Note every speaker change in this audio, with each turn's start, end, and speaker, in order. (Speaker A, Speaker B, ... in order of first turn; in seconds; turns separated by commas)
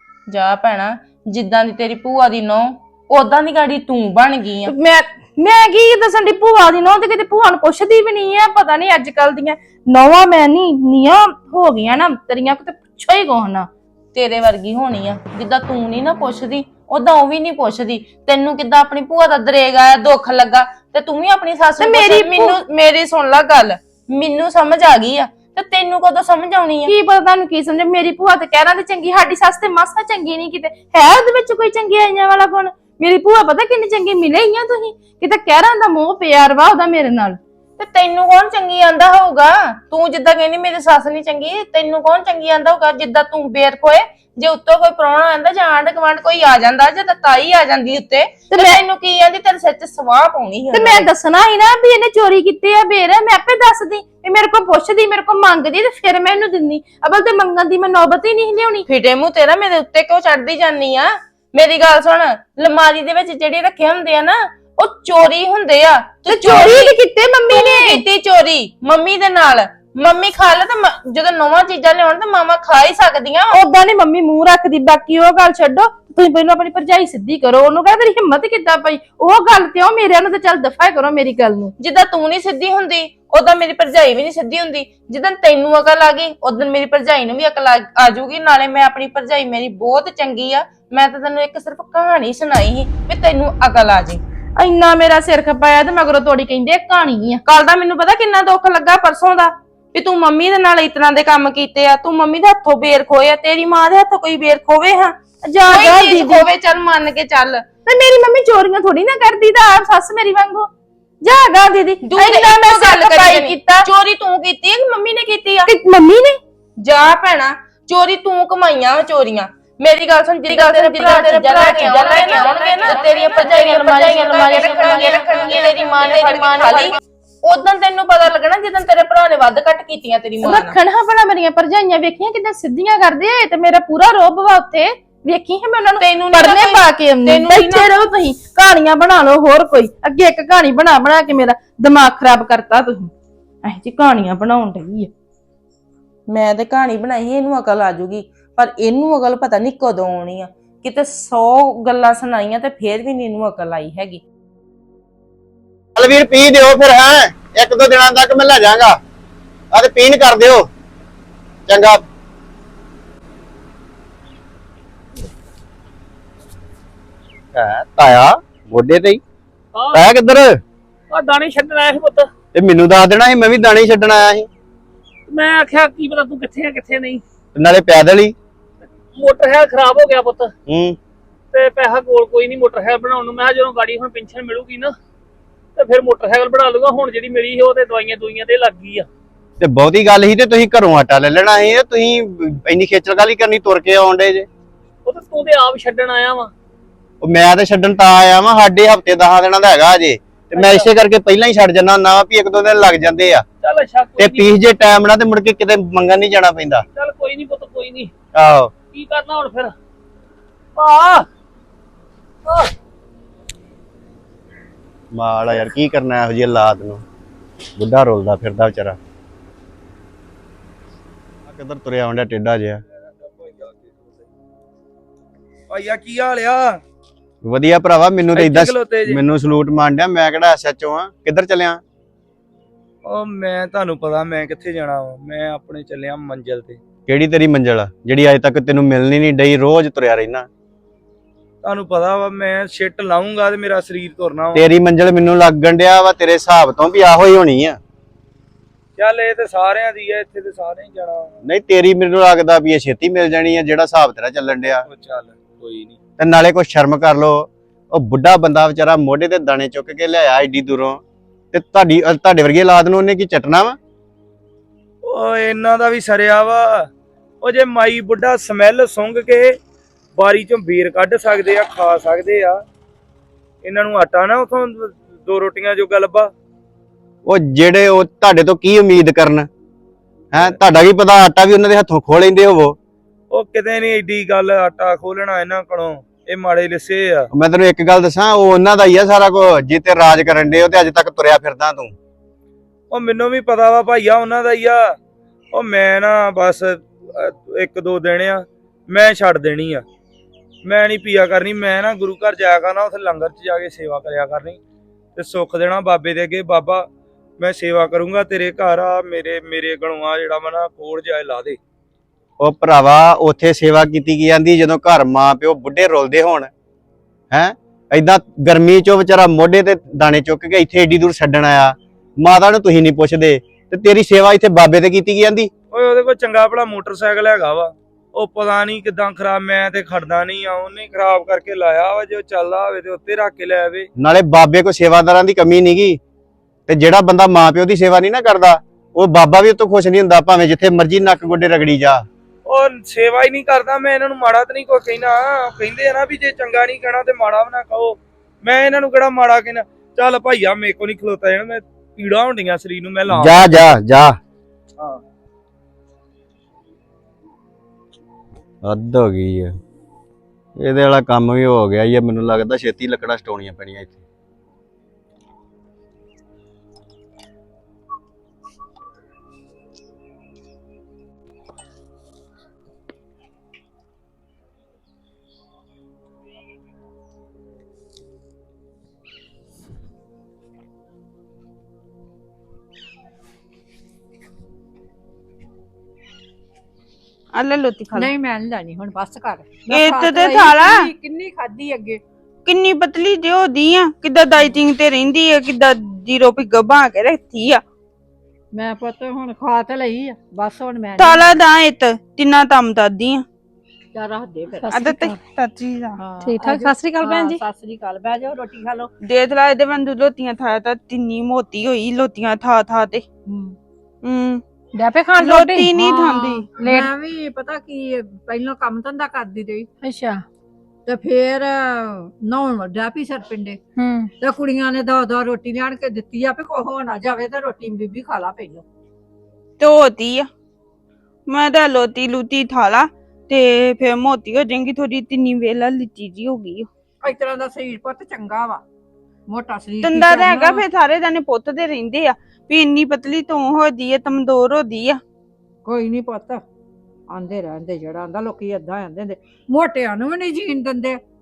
Speaker A: 0.3-4.7, Speaker B: 4.6-13.7, Speaker A: 14.1-26.9, Speaker B: 21.8-22.6, Speaker B: 26.9-37.4, Speaker A: 37.8-51.0, Speaker B: 48.5-48.8, Speaker B: 50.7-58.9, Speaker A: 58.9-66.9, Speaker B: 66.3-68.0, Speaker A: 67.5-73.5, Speaker B: 73.5-81.7, Speaker A: 81.8-94.2, Speaker B: 94.5-97.4, Speaker A: 97.5-107.6, Speaker B: 105.4-106.5, Speaker B: 107.8-110.7, Speaker B: 111.2-113.9, Speaker A: 112.0-115.7, Speaker B: 115.7-116.4, Speaker A: 116.8-130.7, Speaker B: 120.5-127.0, Speaker B: 130.4-143.1, Speaker A: 136.0-137.9, Speaker B: 143.6-145.1, Speaker A: 146.3-154.2, Speaker C: 155.9-159.0, Speaker C: 159.7-160.7, Speaker C: 161.7-162.1, Speaker C: 167.5-169.2, Speaker D: 169.7-170.1, Speaker C: 169.9-170.6, Speaker D: 171.1-172.3, Speaker C: 172.5-174.5, Speaker D: 175.3-177.2, Speaker C: 177.5-178.3, Speaker D: 179.1-180.5, Speaker C: 180.7-181.0, Speaker D: 181.5-184.9, Speaker D: 185.8-189.1, Speaker C: 189.6-194.5, Speaker D: 195.1-196.5, Speaker C: 197.2-203.4, Speaker D: 200.5-200.8, Speaker D: 203.6-204.6, Speaker C: 204.2-206.8, Speaker D: 206.9-208.1, Speaker C: 208.3-208.7, Speaker D: 208.9-209.7, Speaker D: 210.8-211.3, Speaker C: 215.1-217.0, Speaker C: 217.8-219.0, Speaker C: 221.5-222.8, Speaker E: 223.0-224.3, Speaker E: 225.7-226.8, Speaker C: 227.4-231.8, Speaker E: 228.3-229.2, Speaker E: 233.0-236.8, Speaker C: 237.1-240.5, Speaker E: 241.6-244.6, Speaker C: 244.5-247.8, Speaker E: 249.0-251.4, Speaker C: 251.4-254.8, Speaker E: 254.9-256.0, Speaker C: 256.2-261.0, Speaker C: 261.5-263.8, Speaker E: 265.0-266.9, Speaker E: 267.4-269.6, Speaker E: 270.1-272.6, Speaker E: 273.6-276.3, Speaker C: 277.2-279.5, Speaker C: 280.3-282.8, Speaker E: 283.3-287.3, Speaker C: 287.3-291.9, Speaker E: 292.9-294.9, Speaker E: 295.5-299.8, Speaker E: 300.6-304.6, Speaker E: 305.1-306.9, Speaker E: 307.4-311.6, Speaker C: 312.4-316.5, Speaker C: 317.3-325.5, Speaker E: 325.7-333.9, Speaker C: 334.0-336.0, Speaker C: 336.7-342.1, Speaker E: 342.4-353.7, Speaker C: 353.1-354.2, Speaker C: 358.6-359.6, Speaker C: 360.6-364.0, Speaker F: 387.3-388.1, Speaker G: 387.9-392.0, Speaker F: 389.7-390.9, Speaker F: 392.4-397.6, Speaker G: 398.5-401.2, Speaker F: 401.0-403.2, Speaker G: 403.9-404.7, Speaker H: 404.6-405.2, Speaker F: 404.7-406.0, Speaker G: 406.0-408.9, Speaker H: 406.2-407.4, Speaker F: 409.0-413.1, Speaker G: 413.2-413.6, Speaker F: 414.0-414.4, Speaker H: 414.8-415.8, Speaker F: 415.2-416.4, Speaker G: 415.9-419.7, Speaker H: 416.6-416.9, Speaker H: 419.8-420.2, Speaker G: 420.9-423.6, Speaker H: 423.8-424.1, Speaker G: 424.2-428.6, Speaker F: 429.6-430.3, Speaker F: 431.3-436.7, Speaker G: 437.0-438.6, Speaker G: 439.3-440.6, Speaker F: 439.8-445.0, Speaker G: 445.6-446.4, Speaker G: 447.1-451.0